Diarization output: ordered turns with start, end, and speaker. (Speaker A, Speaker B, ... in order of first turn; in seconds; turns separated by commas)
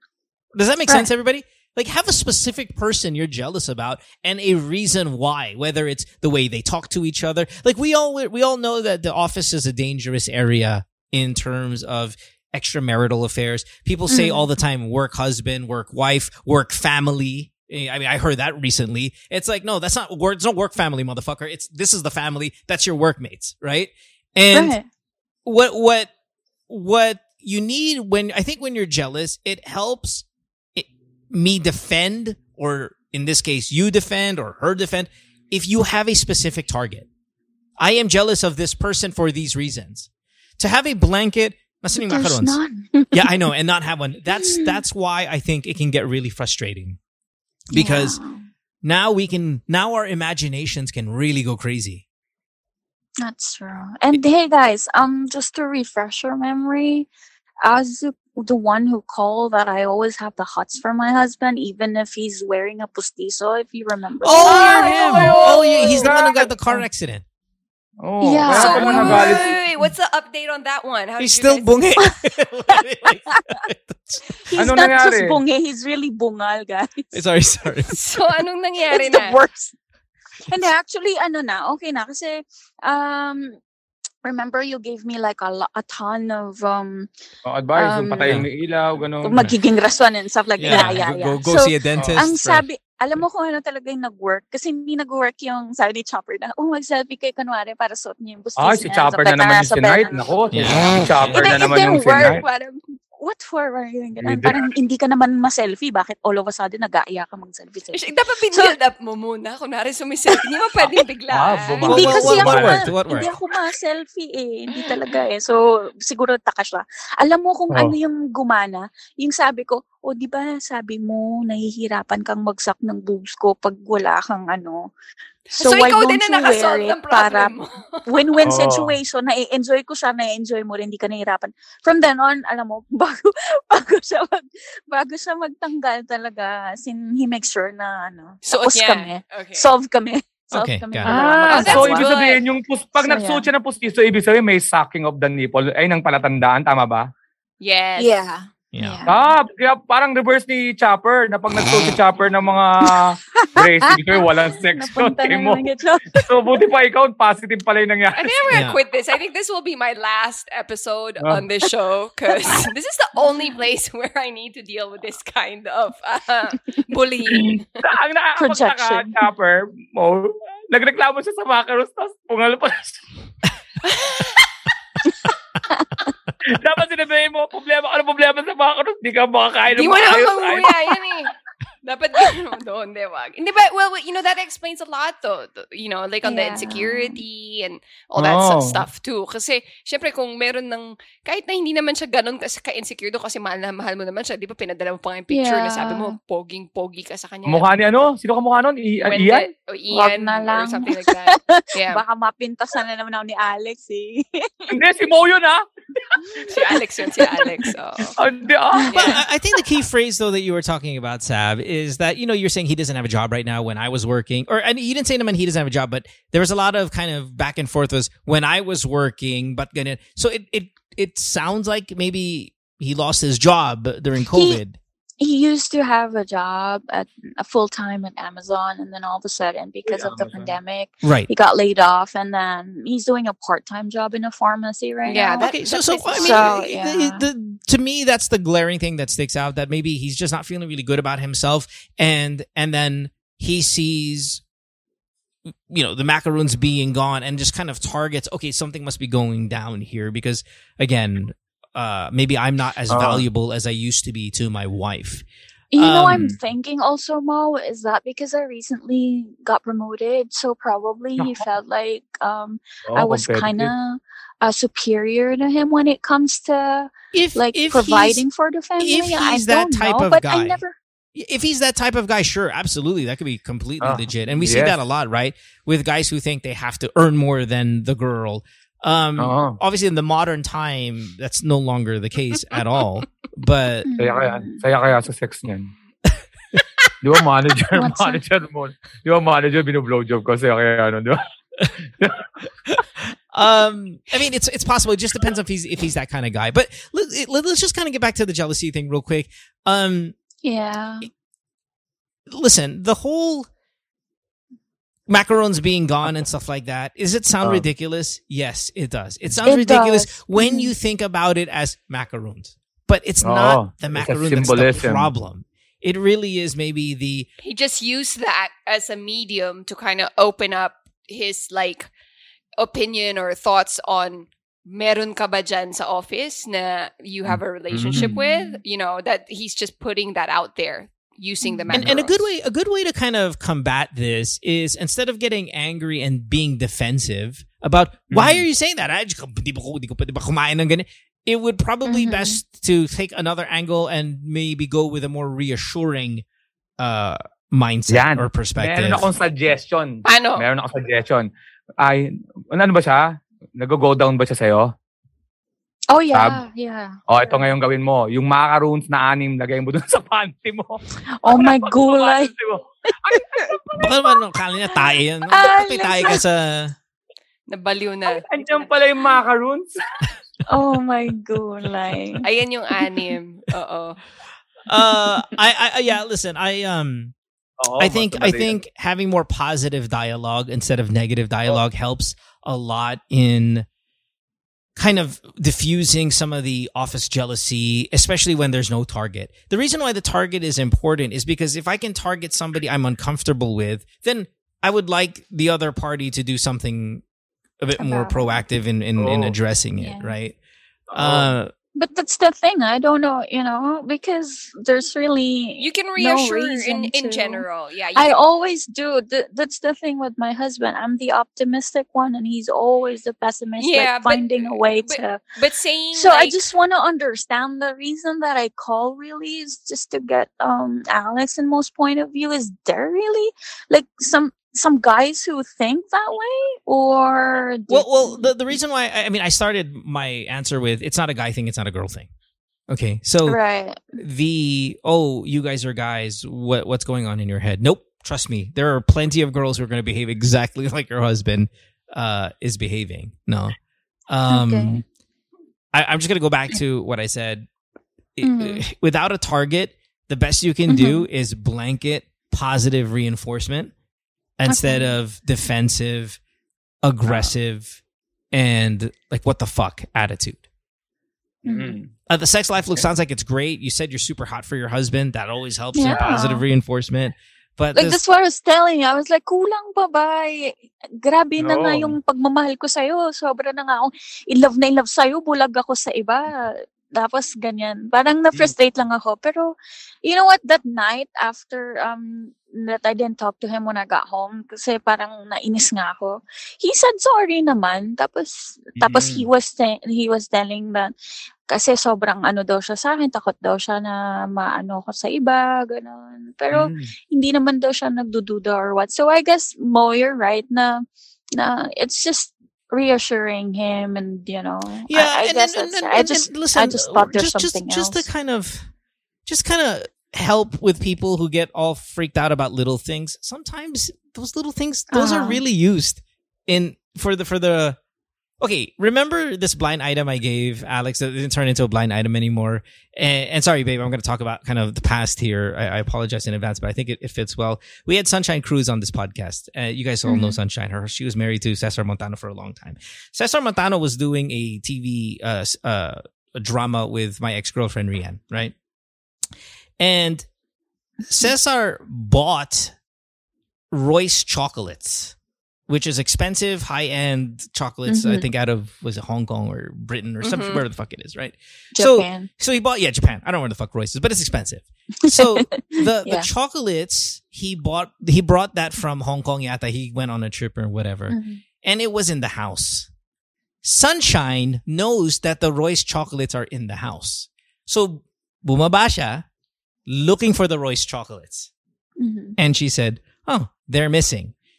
Speaker A: 0.5-24.8, Speaker B: 14.1-14.5, Speaker B: 24.5-24.9, Speaker A: 25.4-26.1, Speaker A: 26.7-37.1, Speaker A: 37.8-40.1, Speaker A: 40.6-47.0, Speaker B: 42.0-43.5, Speaker B: 44.4-44.8, Speaker A: 47.7-48.2, Speaker B: 47.7-48.4, Speaker A: 48.8-52.0, Speaker B: 53.2-57.1, Speaker B: 57.6-66.1, Speaker A: 64.2-67.2, Speaker C: 64.4-66.1, Speaker D: 64.5-66.4, Speaker D: 68.0-69.5, Speaker B: 68.2-69.6, Speaker C: 68.5-71.7, Speaker A: 71.2-74.3, Speaker B: 72.7-73.6, Speaker B: 74.5-77.2, Speaker D: 74.5-75.4, Speaker A: 77.1-77.9, Speaker B: 77.9-78.2, Speaker C: 77.9-79.4, Speaker B: 78.9-79.7, Speaker B: 80.5-83.6, Speaker B: 84.2-87.1, Speaker D: 87.4-89.5, Speaker B: 87.7-88.4, Speaker B: 89.2-108.7, Speaker A: 90.6-92.7, Speaker D: 90.7-91.0, Speaker D: 92.0-92.2, Speaker D: 98.6-102.4, Speaker A: 100.5-101.5, Speaker D: 104.2-104.6, Speaker C: 107.9-112.3, Speaker D: 111.3-112.9, Speaker B: 111.8-124.9, Speaker A: 111.9-113.3, Speaker C: 125.5-128.6, Speaker B: 125.5-127.5, Speaker B: 128.1-142.1, Speaker D: 128.4-128.9, Speaker C: 138.4-139.7, Speaker A: 140.5-141.2, Speaker D: 141.0-147.1, Speaker C: 141.2-142.4, Speaker B: 143.0-143.5, Speaker C: 147.6-148.1, Speaker B: 148.0-149.2, Speaker A: 148.7-149.0, Speaker D: 149.1-155.6, Speaker B: 152.9-156.6, Speaker D: 156.2-158.5, Speaker C: 158.1-167.7, Speaker A: 158.5-158.8, Speaker D: 167.3-173.0, Speaker B: 168.4-169.2, Speaker C: 173.8-174.4, Speaker D: 176.4-180.9, Speaker C: 179.7-181.3, Speaker C: 181.8-197.7, Speaker B: 186.2-187.2, Speaker D: 188.2-188.8, Speaker B: 195.3-196.1, Speaker D: 197.4-199.5, Speaker C: 199.1-202.0, Speaker B: 199.9-204.7, Speaker D: 204.7-206.2, Speaker B: 206.4-207.7, Speaker C: 206.5-208.2, Speaker D: 208.2-209.1, Speaker B: 208.7-209.1, Speaker C: 208.9-209.2, Speaker A: 209.0-224.8, Speaker B: 224.3-224.6, Speaker B: 225.2-235.5, Speaker D: 229.9-230.5, Speaker A: 231.0-231.3, Speaker C: 235.1-236.6, Speaker A: 235.4-244.4, Speaker B: 236.1-237.2, Speaker A: 245.7-255.2, Speaker D: 252.9-253.2, Speaker B: 255.7-270.8, Speaker A: 255.8-256.3, Speaker D: 262.9-263.7, Speaker A: 267.1-268.2, Speaker A: 268.8-270.6, Speaker A: 271.1-283.9, Speaker D: 273.8-274.8, Speaker D: 279.2-279.6, Speaker B: 283.8-284.6, Speaker D: 284.0-285.7, Speaker D: 287.0-292.3, Speaker B: 287.7-288.2, Speaker A: 293.3-300.1, Speaker B: 300.4-301.1, Speaker A: 302.3-303.5, Speaker A: 305.1-317.3, Speaker B: 309.4-310.7, Speaker D: 313.2-315.1, Speaker C: 317.4-321.9, Speaker C: 322.6-332.3, Speaker D: 327.7-328.1, Speaker B: 328.0-328.6, Speaker B: 331.4-331.8, Speaker A: 331.7-346.2, Speaker D: 338.1-338.4, Speaker B: 341.8-342.4, Speaker A: 346.8-349.1, Speaker D: 347.9-351.3, Speaker C: 350.0-350.5, Speaker D: 351.8-354.7, Speaker B: 355.9-356.9, Speaker D: 357.1-363.9, Speaker B: 361.2-362.3, Speaker B: 363.1-363.5, Speaker A: 363.8-366.7, Speaker B: 365.3-366.2, Speaker C: 367.5-368.6, Speaker D: 368.1-369.7, Speaker B: 370.5-372.2, Speaker C: 372.2-374.0, Speaker A: 374.7-377.1, Speaker D: 377.6-378.6, Speaker A: 377.8-383.6, Speaker A: 384.8-397.0, Speaker A: 397.6-400.4, Speaker B: 397.8-398.4, Speaker D: 399.0-399.3, Speaker B: 399.8-400.1, Speaker D: 400.9-401.3, Speaker A: 400.9-401.5, Speaker B: 401.8-415.2, Speaker C: 405.6-408.1, Speaker C: 413.6-416.4, Speaker B: 415.9-428.3, Speaker A: 427.7-432.1, Speaker A: 432.7-433.4, Speaker B: 433.2-433.8, Speaker A: 433.9-443.6, Speaker A: 444.1-444.8, Speaker B: 444.3-444.8, Speaker A: 445.7-447.5, Speaker A: 448.2-453.7, Speaker B: 448.2-448.6, Speaker B: 450.7-451.1, Speaker A: 454.4-456.2, Speaker B: 454.5-454.9, Speaker A: 456.8-457.8, Speaker A: 458.3-460.4, Speaker B: 461.4-461.8, Speaker D: 461.4-461.9, Speaker A: 462.1-468.0, Speaker B: 465.7-466.4, Speaker B: 467.7-479.5, Speaker D: 471.4-471.9, Speaker B: 480.0-490.9, Speaker D: 488.8-489.2, Speaker B: 491.5-508.1, Speaker D: 496.5-496.9, Speaker A: 504.9-508.7, Speaker A: 509.2-517.8, Speaker B: 514.9-515.4, Speaker A: 518.4-538.5, Speaker B: 530.0-530.4, Speaker A: 539.8-540.3, Speaker A: 541.1-542.7, Speaker A: 543.7-545.1, Speaker A: 545.7-562.9, Speaker B: 547.9-548.2, Speaker C: 550.2-550.6, Speaker B: 551.8-552.3, Speaker B: 555.0-556.3, Speaker B: 561.1-561.4, Speaker A: 563.6-569.2, Speaker A: 569.9-571.5, Speaker B: 572.0-572.3, Speaker A: 572.4-574.3